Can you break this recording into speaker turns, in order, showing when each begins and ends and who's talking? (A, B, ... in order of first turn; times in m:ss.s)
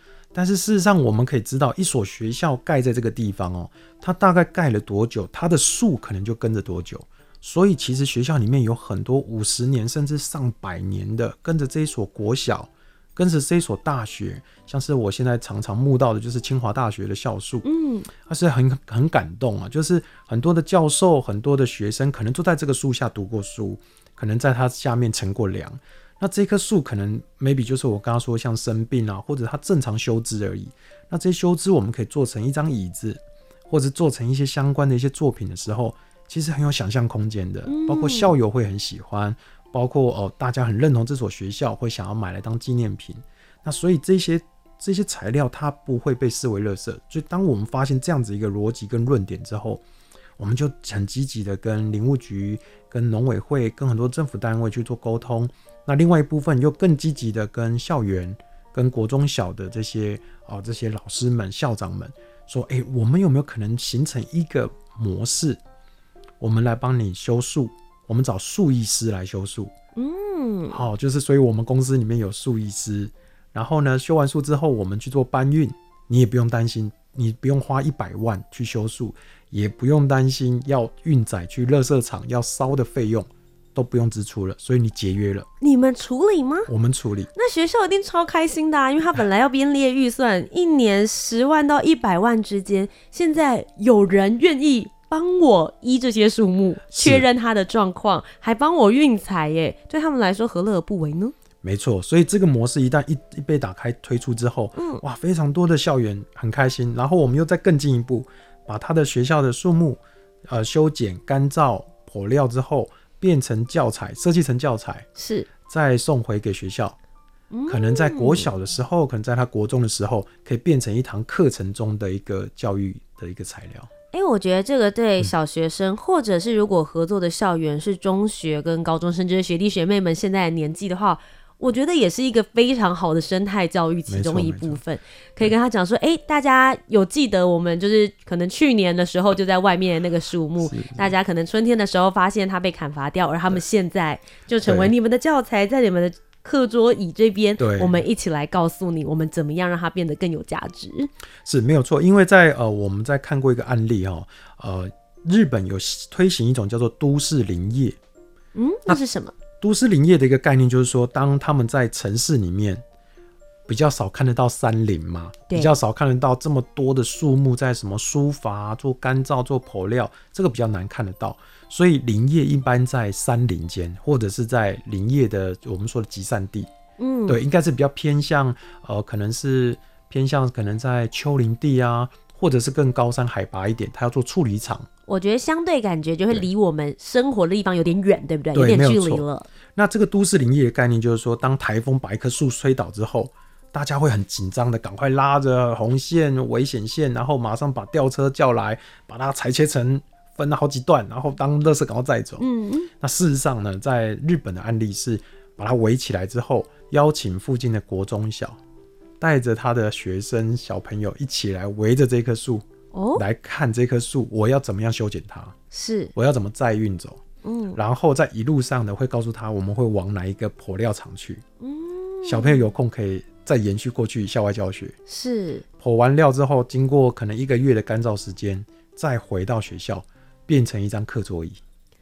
0:00.3-0:49.8 A
0:17.6-0:18.1 B
0:37.7-0:38.3 B
0:50.4-1:05.6 A
1:06.4-1:09.7 A
1:10.0-1:10.8 B
1:10.7-1:25.5 A
1:25.6-1:26.7 B
1:26.7-1:27.3 A
1:27.3-1:41.3 B
1:36.9-1:37.2 A
1:41.6-1:55.1 A
1:44.8-1:45.0 B
1:55.2-1:55.5 B
1:55.6-1:57.0 A
1:57.5-1:58.5 B
1:57.7-2:03.9 A
2:04.1-2:31.1 B
2:14.1-2:14.8 A
2:20.6-2:21.1 A
2:24.6-2:24.9 A
2:27.6-2:28.0 A
2:31.4-2:38.0 A
2:38.5-2:39.3 B
2:39.6-2:42.8 A
2:43.7-2:56.7 A
2:57.0-2:57.4 B
2:57.3-3:04.9 A
3:05.1-3:09.5 B
3:08.5-3:09.2 A
3:09.8-3:22.4 A
3:22.4-3:22.9 B
3:23.0-3:28.6 A
3:29.2-3:35.6 A
3:32.9-3:33.2 B
3:35.7-3:36.1 B
3:36.1-3:37.2 A
3:37.4-3:37.8 B
3:37.7-3:41.4 A
3:41.6-3:42.6 B
3:42.2-3:44.9 A
3:45.1-3:45.6 B
3:45.8-3:51.6 A